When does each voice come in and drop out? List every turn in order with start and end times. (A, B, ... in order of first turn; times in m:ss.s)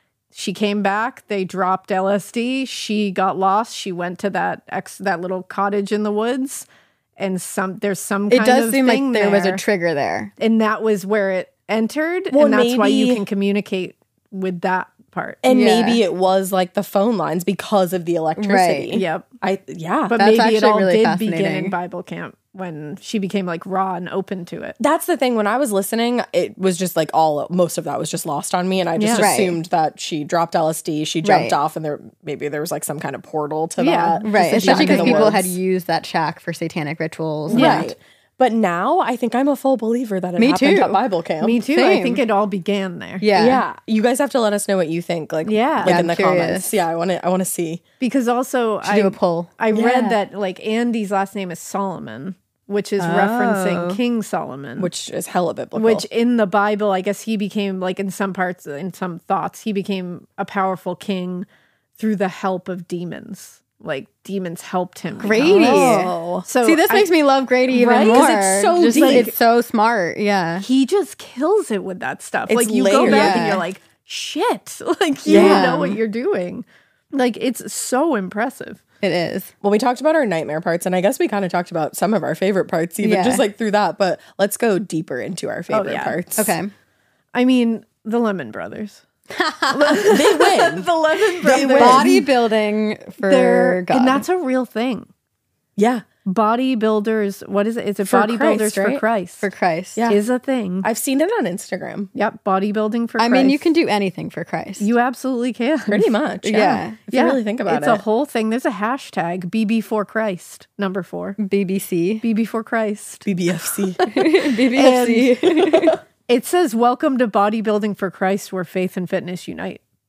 0:00.3-0:09.6 A
0:08.3-0:10.3 B
0:10.4-0:15.4 A
0:12.3-0:13.2 C
0:15.4-0:20.2 C
0:15.5-0:16.0 B
0:18.4-0:19.0 B
0:18.9-0:19.3 A
0:20.1-0:24.8 A
0:20.2-0:21.8 B
0:24.8-0:35.6 C
0:29.0-0:29.3 A
0:29.2-0:29.6 B
0:31.2-0:31.6 B
0:33.8-0:35.4 A
0:34.2-0:37.9 B
0:37.5-0:41.6 C
0:37.5-0:37.9 A
0:40.4-0:41.0 B
0:41.4-0:43.3 A
0:41.7-0:42.2 B
0:43.2-0:43.6 B
0:43.4-0:47.8 C
0:45.5-0:46.0 A
0:45.8-0:46.8 B
0:48.0-0:54.9 A
0:48.8-0:50.2 B
0:53.0-0:54.0 B
0:54.8-0:56.0 C
0:55.8-1:07.1 A
1:05.2-1:10.6 B
1:05.5-1:06.5 C
1:07.7-1:09.3 A
1:08.0-1:09.3 C
1:10.6-1:18.8 A
1:12.5-1:13.6 C
1:13.0-1:13.6 B
1:15.3-1:15.8 C
1:15.3-1:16.0 B
1:19.0-1:19.5 B
1:19.6-1:26.6 C
1:23.0-1:23.4 B
1:25.7-1:26.2 A
1:26.4-1:26.7 B
1:27.3-1:29.0 A
1:29.3-1:30.0 B
1:29.7-1:32.1 A
1:30.0-1:30.9 C
1:31.4-1:32.3 C
1:31.8-1:34.2 B
1:33.2-1:35.1 A
1:35.8-1:36.0 C
1:36.2-1:39.5 A
1:38.0-1:39.0 C
1:39.4-1:40.0 B
1:40.1-1:40.9 A
1:40.8-1:42.1 C
1:42.2-1:43.7 A
1:43.2-1:44.9 B
1:44.8-1:46.1 A
1:45.9-1:48.0 C
1:46.4-1:47.0 B
1:47.1-1:51.4 A
1:51.4-1:52.2 B
1:52.2-1:53.3 A
1:53.2-1:54.0 C
1:54.1-1:56.0 B
1:54.7-1:55.5 A
1:56.3-1:59.8 A